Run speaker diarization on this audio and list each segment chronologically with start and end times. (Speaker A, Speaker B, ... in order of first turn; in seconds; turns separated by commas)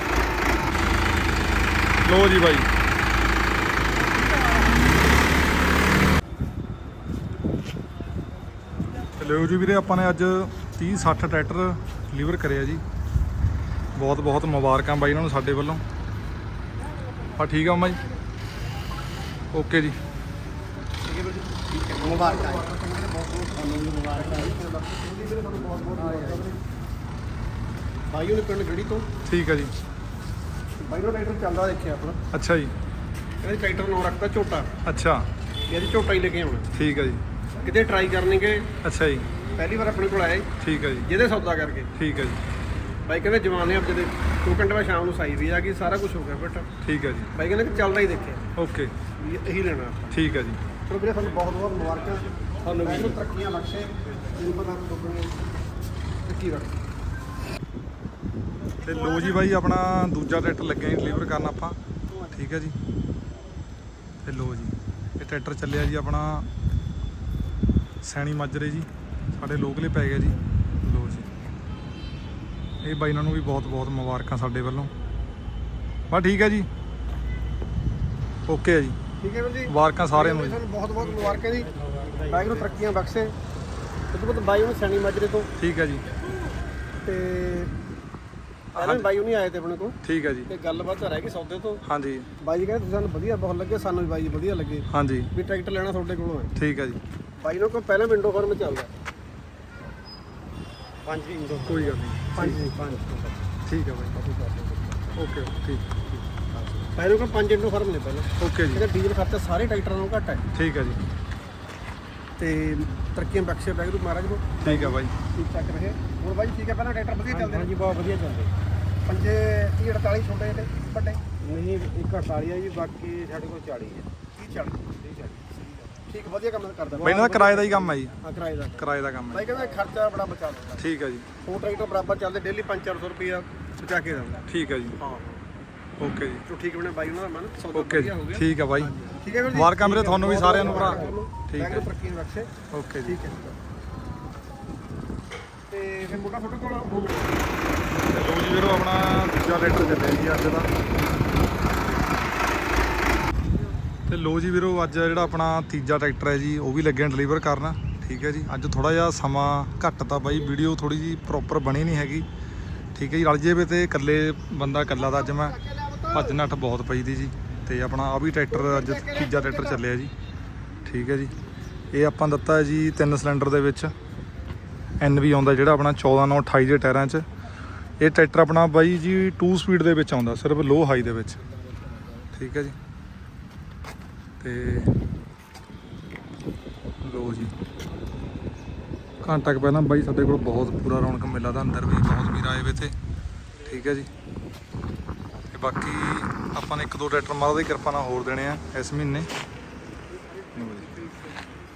Speaker A: 2.0-2.7, Speaker A: 9.2-12.8, Speaker A: 14.0-15.8, Speaker A: 17.4-18.0, Speaker A: 19.5-20.0, Speaker B: 21.1-26.6, Speaker C: 21.8-22.6, Speaker C: 23.6-24.5, Speaker C: 25.8-26.5, Speaker B: 28.1-29.1, Speaker A: 29.2-29.7, Speaker B: 30.8-32.2, Speaker A: 32.3-32.7, Speaker B: 33.4-34.7, Speaker A: 34.9-35.3, Speaker B: 35.7-36.7, Speaker A: 36.7-37.2, Speaker B: 37.6-38.7, Speaker A: 38.8-39.3, Speaker B: 39.6-40.5, Speaker A: 40.6-41.1, Speaker B: 41.0-41.9, Speaker A: 42.0-42.4, Speaker B: 43.1-46.7, Speaker A: 46.8-47.3, Speaker B: 47.4-48.4, Speaker A: 48.5-48.9, Speaker B: 49.2-50.2, Speaker A: 50.1-50.6, Speaker B: 50.9-55.5, Speaker A: 52.7-53.0, Speaker B: 56.2-56.8, Speaker A: 58.8-61.8, Speaker B: 58.9-59.4, Speaker B: 62.1-62.4, Speaker A: 62.3-62.8, Speaker A: 64.2-66.5, Speaker A: 68.0-71.3, Speaker A: 72.8-74.9, Speaker A: 76.1-76.7, Speaker A: 78.5-79.0, Speaker B: 79.2-81.7, Speaker A: 79.7-80.6, Speaker C: 82.2-82.5, Speaker B: 82.2-83.3, Speaker B: 84.1-85.5, Speaker A: 85.6-86.0, Speaker B: 87.0-87.7, Speaker A: 88.8-89.1, Speaker B: 88.8-91.8, Speaker A: 90.0-90.5, Speaker A: 91.8-92.3, Speaker B: 92.4-96.5, Speaker A: 94.9-95.3, Speaker A: 96.6-97.0, Speaker B: 97.4-98.9, Speaker B: 101.1-103.3, Speaker A: 101.7-102.7, Speaker A: 103.7-104.2, Speaker B: 104.2-104.8, Speaker A: 105.2-106.1, Speaker B: 106.8-110.5, Speaker A: 108.4-108.8, Speaker A: 110.5-111.0, Speaker B: 112.4-117.8, Speaker A: 114.6-115.1, Speaker C: 117.3-118.5, Speaker B: 119.1-121.3, Speaker C: 121.4-124.1, Speaker B: 124.2-125.0, Speaker C: 125.0-125.7, Speaker B: 126.0-130.9, Speaker A: 127.0-128.2, Speaker A: 128.8-129.5, Speaker A: 130.8-131.3, Speaker B: 131.4-135.4, Speaker A: 134.5-135.0, Speaker A: 136.0-136.4, Speaker B: 136.4-142.5, Speaker A: 137.7-138.9, Speaker A: 139.5-141.9, Speaker A: 142.7-143.2, Speaker B: 143.0-143.5, Speaker B: 145.7-147.3, Speaker A: 148.1-150.7, Speaker A: 154.1-162.3, Speaker A: 162.9-165.6, Speaker B: 164.7-166.4, Speaker A: 166.1-170.1, Speaker B: 168.5-169.8, Speaker A: 170.8-171.3, Speaker A: 171.9-173.9, Speaker A: 175.0-177.2, Speaker A: 178.0-181.4, Speaker A: 182.3-182.8, Speaker A: 184.4-185.0, Speaker A: 187.0-187.5, Speaker A: 189.2-192.9, Speaker A: 193.7-194.1, Speaker A: 195.5-199.3, Speaker B: 200.3-200.9, Speaker A: 200.6-200.9